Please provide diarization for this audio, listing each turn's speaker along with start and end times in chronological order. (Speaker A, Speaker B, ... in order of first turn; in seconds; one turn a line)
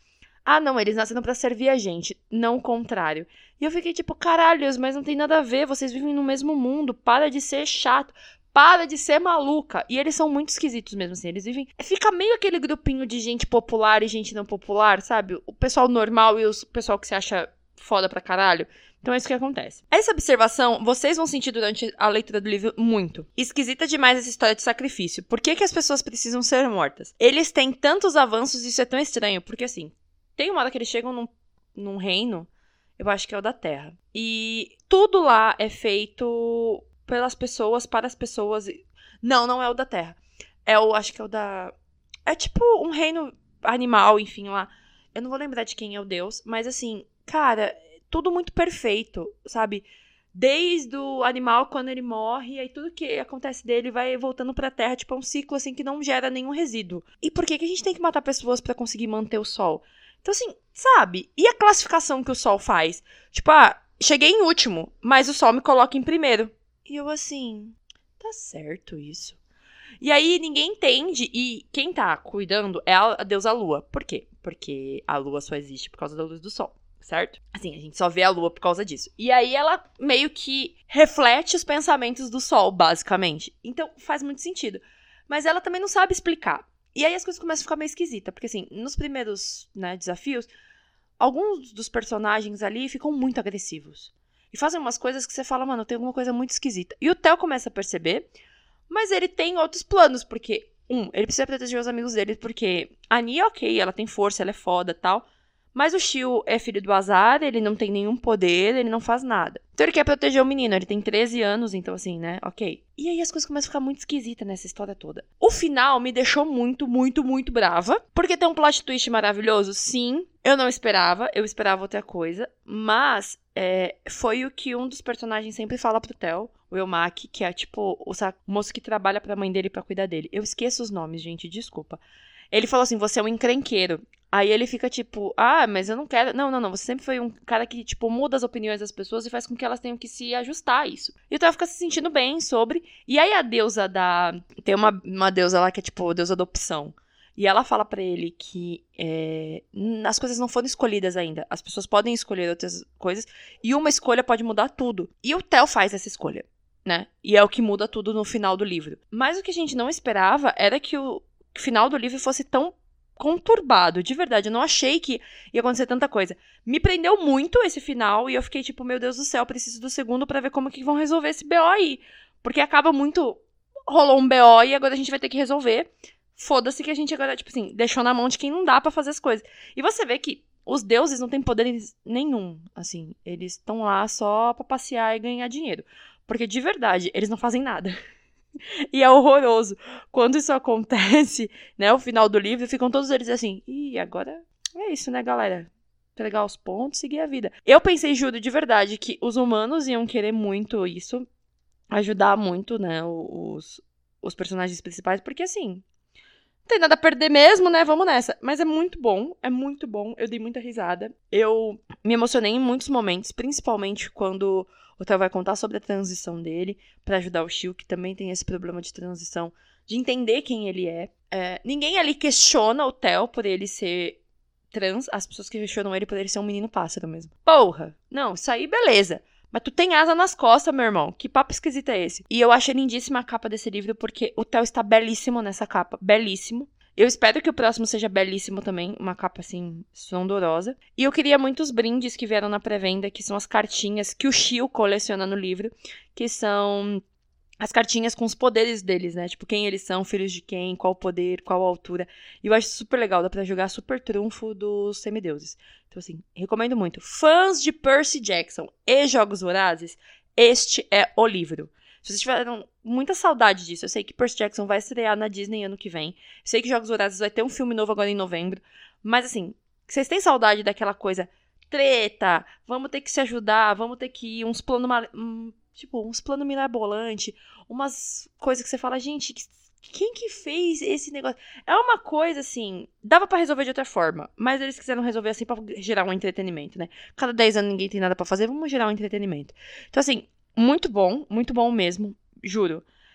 Speaker A: 0.4-41.7
Speaker A: 42.2-69.4
Speaker A: 70.0-90.5
Speaker A: 91.2-98.3
Speaker A: 98.9-132.0
Speaker A: 132.5-187.9
Speaker A: 188.9-201.2
Speaker A: 201.9-205.8
Speaker A: 206.7-224.2
Speaker A: 224.7-247.0
Speaker A: 247.6-292.8